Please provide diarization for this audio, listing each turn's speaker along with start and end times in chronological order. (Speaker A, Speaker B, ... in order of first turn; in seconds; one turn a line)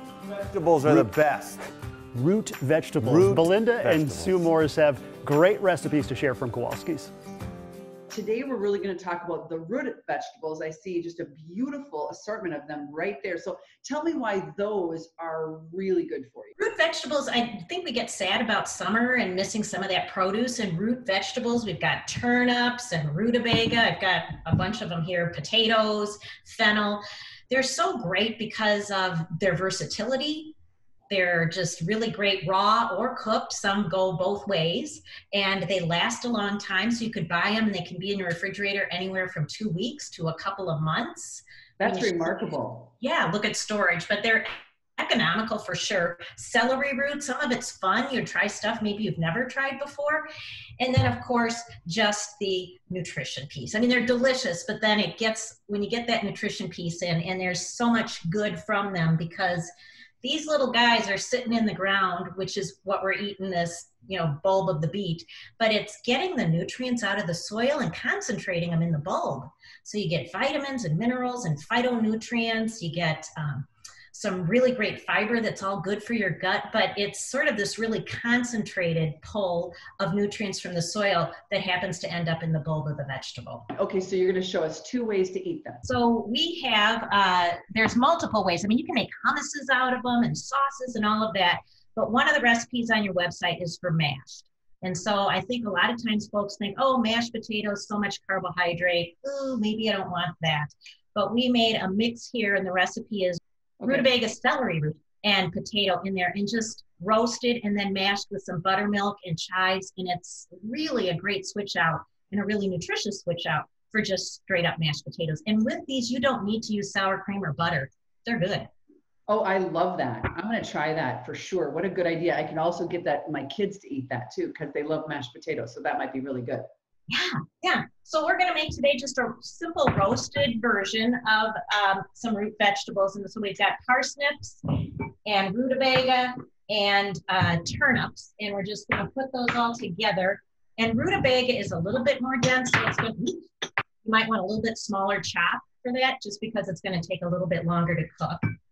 Speaker A: 0.3-1.6
Speaker B: 0.9-1.1
Speaker B: 2.1-7.1
Speaker A: 3.0-4.4
Speaker C: 8.1-16.5
Speaker D: 16.6-30.6
Speaker D: 31.1-50.3
Speaker C: 41.8-42.9
Speaker D: 50.8-59.7
Speaker D: 60.2-83.7
Speaker C: 83.7-85.8
Speaker D: 85.8-118.7
Speaker C: 103.8-104.1
Speaker C: 119.3-126.7
Speaker D: 127.1-143.5
Speaker D: 144.0-148.4